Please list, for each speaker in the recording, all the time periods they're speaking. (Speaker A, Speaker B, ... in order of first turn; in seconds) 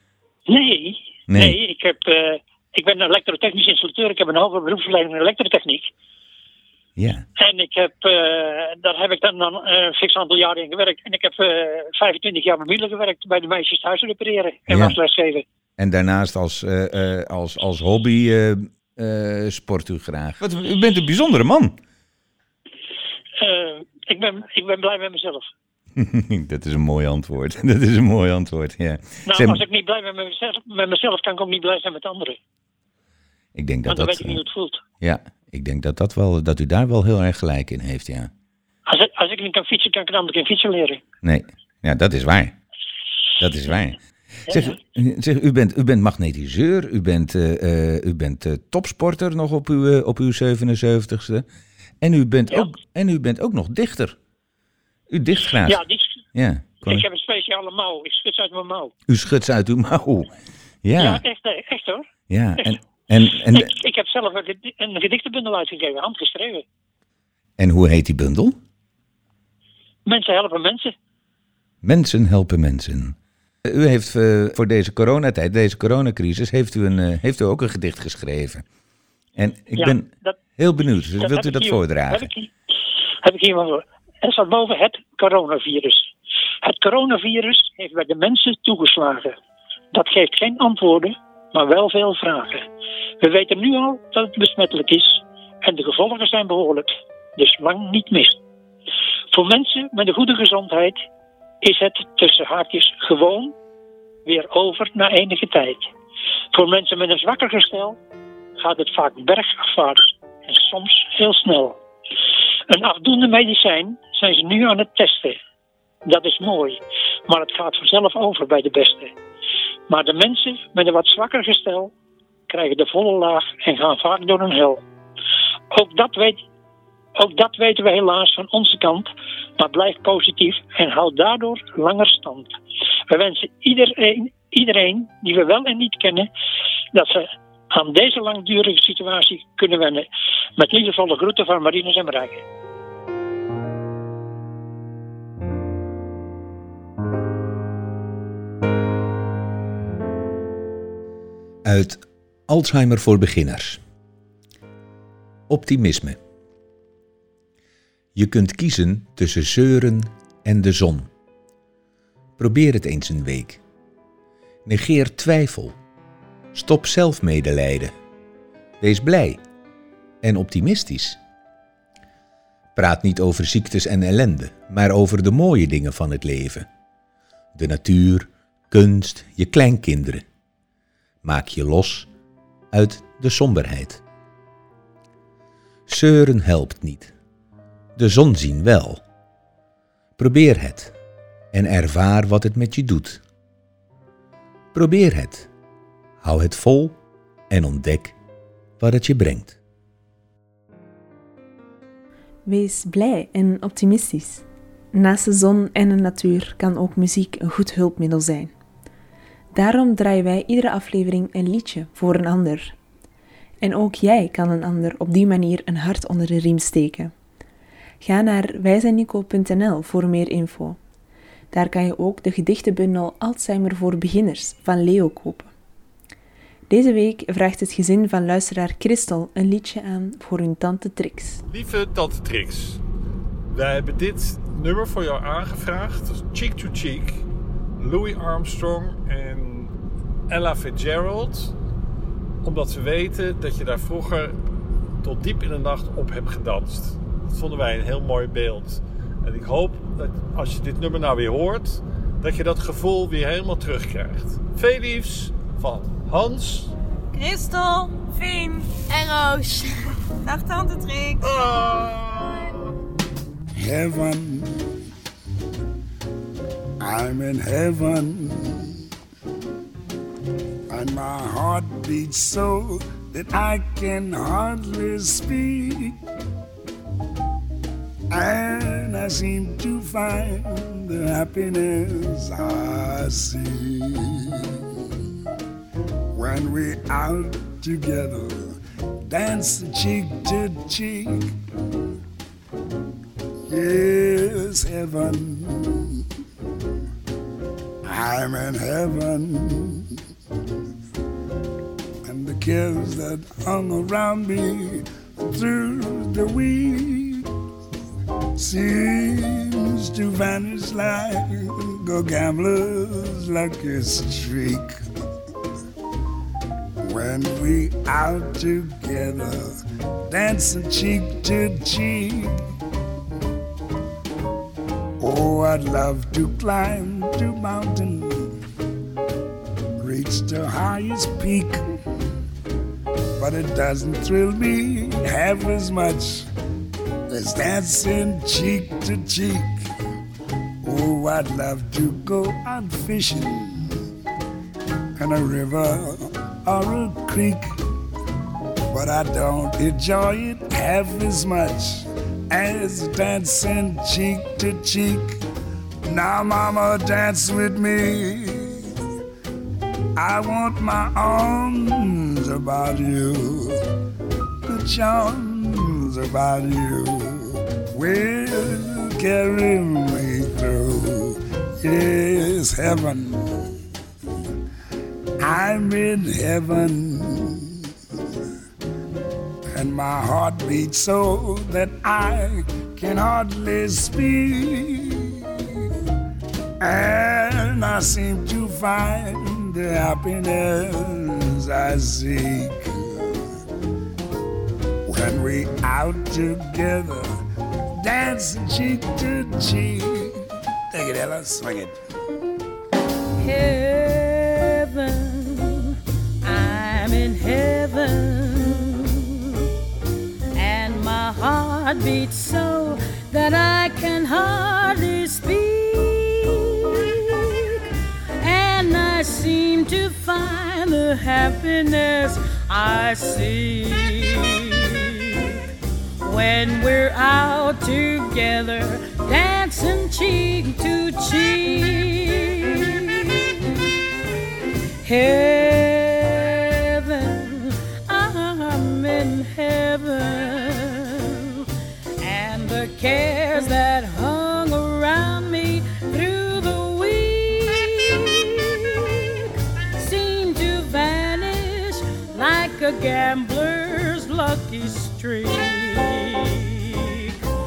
Speaker A: 0.5-5.9, 7.4-15.4, 23.4-25.5, 29.3-32.4, 33.9-34.8, 38.9-41.0, 44.5-44.8, 55.6-56.0, 56.8-58.9, 61.0-62.1, 63.5-66.6, 70.0-70.9, 79.8-80.4, 81.2-82.5, 83.2-86.1, 86.6-89.3, 89.9-92.6, 93.2-98.4, 99.3-101.0, 101.6-103.5, 104.2-105.9, 106.5-108.0, 108.6-111.8, 112.7-115.4, 116.0-119.1, 119.9-121.9, 122.5-124.8, 125.7-126.4, 127.2-132.5, 133.1-136.3, 136.9-140.1, 140.6-142.4
Speaker B: 1.3-1.6, 7.0-7.2, 14.7-15.0, 15.8-21.8, 25.9-29.6, 33.5-34.4, 35.0-38.3, 41.2-42.5, 43.4-51.5, 52.0-54.2, 55.1-55.8, 56.3-57.0, 59.1-60.3, 60.8-61.2, 62.3-63.7, 67.6-68.6, 71.8-78.6, 79.3-82.3, 151.6-153.8, 155.5-156.2, 158.1-161.1, 162.4-163.6, 164.7-165.8, 166.5-167.9, 168.8-169.4, 170.2-171.2, 172.8-176.7, 177.5-180.2, 181.2-182.1, 182.7-184.0, 185.9-187.1, 187.9-189.0, 190.2-190.9, 191.5-193.2, 194.7-195.5, 196.2-197.0, 197.5-198.2, 198.8-199.6
Speaker C: 202.4-208.5, 209.5-212.7, 213.6-217.1, 218.0-220.8, 221.5-225.5, 226.7-231.4
Speaker D: 231.5-232.8, 233.5-237.2, 237.8-239.7, 240.3-241.5, 242.4-244.4, 245.0-256.7, 261.2-262.4
Speaker E: 257.1-261.3
Speaker F: 263.5-264.6, 266.8-268.8, 270.7-276.0, 278.1-284.6, 286.1-291.3, 293.5-296.0, 297.8-300.0, 302.0-307.3, 308.4-314.8, 316.8-319.5, 320.1-322.4, 325.0-328.4, 329.8-331.6, 333.2-336.3, 337.1-339.5, 340.6-343.8, 344.9-347.4, 348.7-355.2, 355.9-358.7, 359.9-363.6, 364.4-373.4, 375.2-377.7, 379.5-385.4, 386.6-393.2, 394.9-397.1, 397.8-401.8
Speaker G: 403.2-409.4, 410.4-417.6, 418.2-425.4, 426.0-433.6, 434.8-441.4, 442.0-449.2, 449.8-457.1